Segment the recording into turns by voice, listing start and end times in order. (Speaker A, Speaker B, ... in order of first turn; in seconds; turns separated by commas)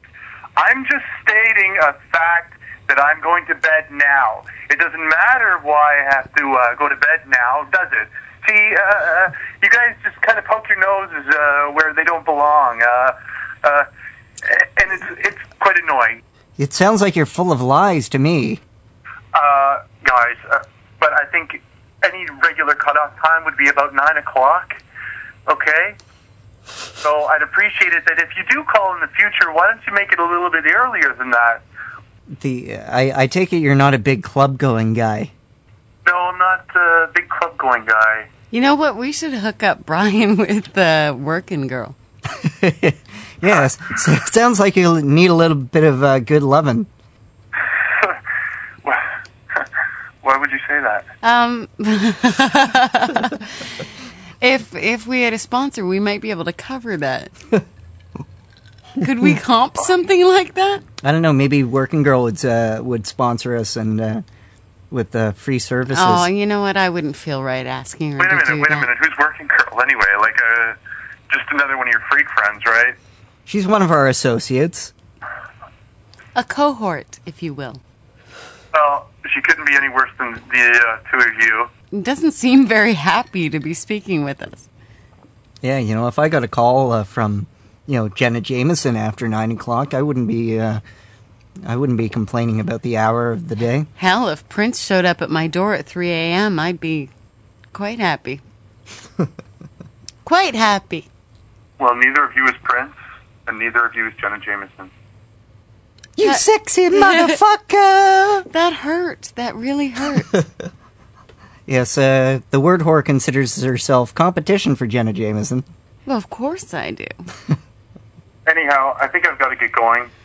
Speaker A: 0.6-13.9, Speaker A: 14.4-16.2, Speaker B: 16.6-18.6, Speaker A: 19.3-24.8, Speaker A: 25.5-26.0, Speaker A: 27.0-31.6, Speaker B: 32.4-35.3, Speaker A: 36.0-38.3, Speaker C: 38.5-42.0, Speaker B: 42.3-46.9, Speaker A: 47.8-48.2, Speaker A: 50.2-51.1, Speaker C: 51.2-53.8, Speaker C: 54.4-57.3, Speaker C: 59.0-60.8, Speaker B: 61.0-64.2, Speaker B: 64.9-66.3, Speaker C: 65.9-68.9, Speaker A: 68.2-70.8, Speaker A: 71.3-73.0, Speaker B: 73.5-74.9, Speaker C: 76.4-77.8, Speaker A: 78.7-81.7, Speaker C: 81.9-84.7, Speaker B: 85.6-90.8, Speaker B: 91.7-93.9, Speaker C: 94.0-97.1, Speaker C: 97.7-98.4, Speaker C: 100.2-101.1, Speaker A: 101.8-104.9, Speaker B: 106.2-108.5, Speaker C: 106.9-107.4, Speaker C: 108.5-110.4, Speaker B: 111.7-115.7, Speaker C: 116.1-117.1, Speaker A: 118.5-120.1